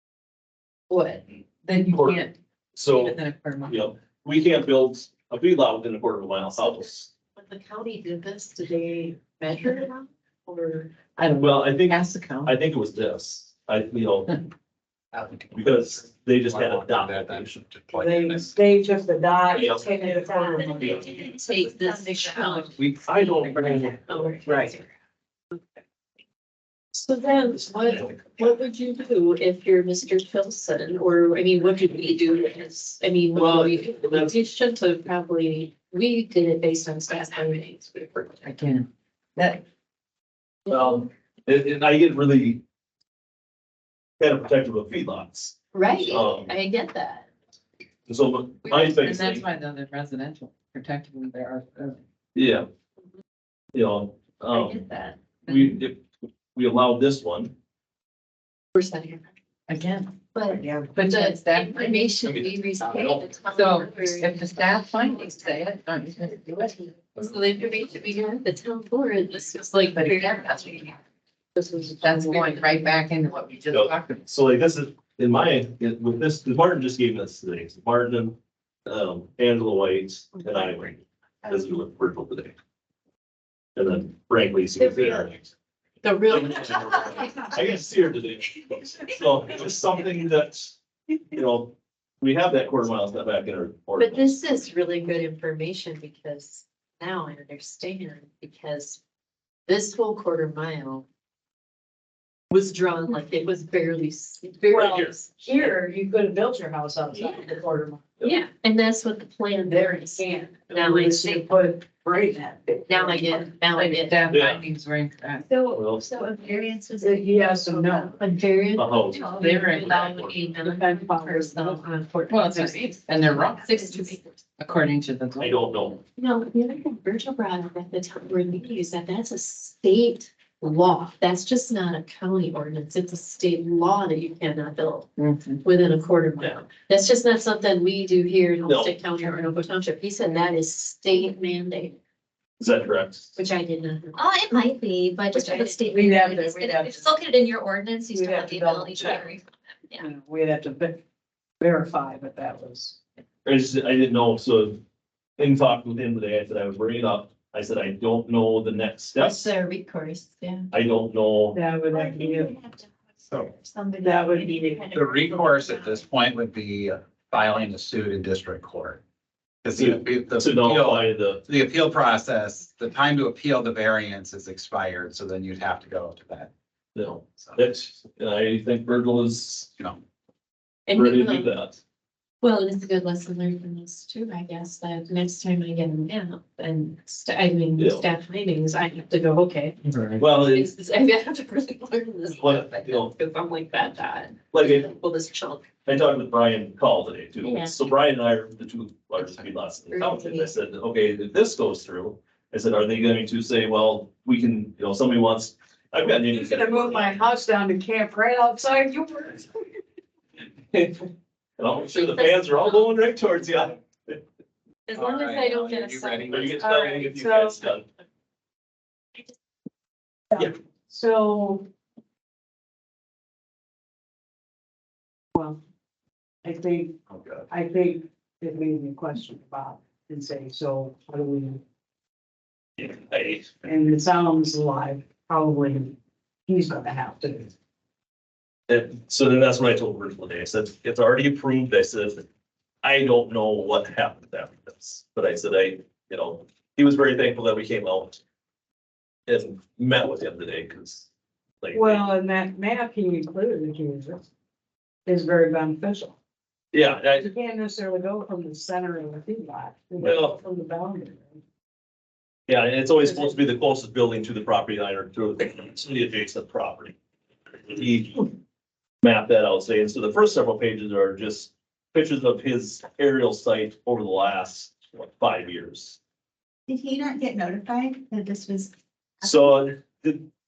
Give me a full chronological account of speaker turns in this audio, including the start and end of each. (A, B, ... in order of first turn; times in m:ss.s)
0:00.9-0:01.2 A
0:01.6-0:02.4 B
0:01.9-0:07.1 C
0:02.9-0:03.9 B
0:06.5-0:11.0 A
0:11.2-0:12.6 B
0:11.4-0:14.3 C
0:15.1-0:18.5 D
0:15.5-0:17.6 C
0:18.0-0:21.3 E
0:19.5-0:20.0 C
0:19.6-0:22.7 A
0:20.8-0:21.2 C
0:21.3-0:24.0 B
0:23.1-0:24.4 C
0:24.1-0:24.9 A
0:26.9-0:38.5 A
0:27.6-0:28.2 C
0:33.4-0:34.4 C
0:38.4-0:39.6 B
0:40.7-0:41.1 A
0:40.7-0:42.6 C
0:44.2-0:46.5 C
0:45.7-0:47.3 A
0:48.1-0:49.4 C
0:48.6-0:52.0 B
0:52.4-0:52.7 C
0:53.7-0:54.9 C
0:54.5-0:55.2 A
0:55.2-0:55.8 B
0:55.4-0:56.0 C
0:56.6-0:57.5 C
0:58.8-0:59.3 A
0:59.7-1:00.2 B
1:00.3-1:05.2 A
1:00.6-1:00.9 E
1:00.8-1:02.4 B
1:02.3-1:03.4 C
1:03.5-1:07.0 B
1:07.2-1:11.0 A
1:09.8-1:10.7 B
1:11.6-1:14.3 B
1:11.6-1:12.8 A
1:13.7-1:22.6 C
1:23.8-1:25.4 C
1:24.8-1:25.4 A
1:26.0-1:27.5 A
1:26.3-1:30.8 C
1:31.3-1:34.4 C
1:34.0-1:39.0 A
1:39.7-1:41.1 A
1:42.5-1:45.7 A
1:44.7-1:45.1 C
1:44.7-1:48.1 E
1:47.2-1:47.5 A
1:48.2-1:51.5 A
1:49.6-1:53.6 E
1:52.9-1:54.2 A
1:53.7-1:55.5 B
1:54.3-1:54.7 C
1:55.5-2:04.3 A
1:55.6-1:56.1 C
1:57.0-1:58.2 E
1:58.8-2:00.3 C
1:59.3-2:00.5 B
1:59.3-1:59.7 E
2:00.5-2:01.8 E
2:02.3-2:05.6 B
2:05.4-2:06.0 C
2:06.2-2:15.1 A
2:15.2-2:15.6 B
2:15.6-2:22.0 A
2:18.7-2:19.0 C
2:22.6-2:23.3 C
2:23.4-2:24.3 A
2:24.2-2:30.1 F
2:25.3-2:27.2 E
2:25.5-2:25.8 A
2:28.1-2:29.4 E
2:30.0-2:31.0 E
2:31.6-2:33.0 E
2:33.4-2:34.8 C
2:35.4-2:39.5 C
2:39.2-2:40.7 A
2:40.7-2:41.6 C
2:41.5-2:42.6 E
2:42.0-2:46.0 A
2:44.0-2:44.9 E
2:44.9-2:49.0 D
2:49.6-2:56.5 D
2:49.8-2:51.4 C
2:57.0-2:59.7 C
3:00.9-3:01.6 A
3:00.9-3:01.8 C
3:02.4-3:09.8 A
3:07.8-3:08.1 C
3:10.2-3:10.7 C
3:10.3-3:15.7 A
3:12.3-3:13.1 C
3:14.5-3:14.9 C
3:15.9-3:27.2 C
3:17.4-3:17.8 A
3:19.2-3:20.5 A
3:26.3-3:29.7 E
3:30.7-3:31.1 C
3:31.6-3:34.2 C
3:31.9-3:33.0 A
3:34.9-3:36.6 A
3:35.0-3:36.6 D
3:36.3-3:37.9 C
3:36.5-3:37.7 E
3:40.3-3:41.7 E
3:45.4-3:45.6 E
3:46.4-3:51.6 E
3:47.1-3:47.5 C
3:52.8-3:53.6 C
3:53.6-3:56.0 E
3:56.5-3:57.5 E
3:58.7-4:02.2 C
4:02.8-4:08.2 C
4:09.3-4:11.1 C
4:11.6-4:12.1 C
4:11.7-4:14.3 E
4:15.1-4:16.2 E
4:16.7-4:17.3 C
4:17.2-4:21.4 E
4:20.0-4:20.4 C
4:22.5-4:27.0 C
4:23.0-4:23.4 E
4:27.7-4:28.3 C
4:29.0-4:36.0 C
4:36.7-4:38.7 F
4:39.2-4:40.3 C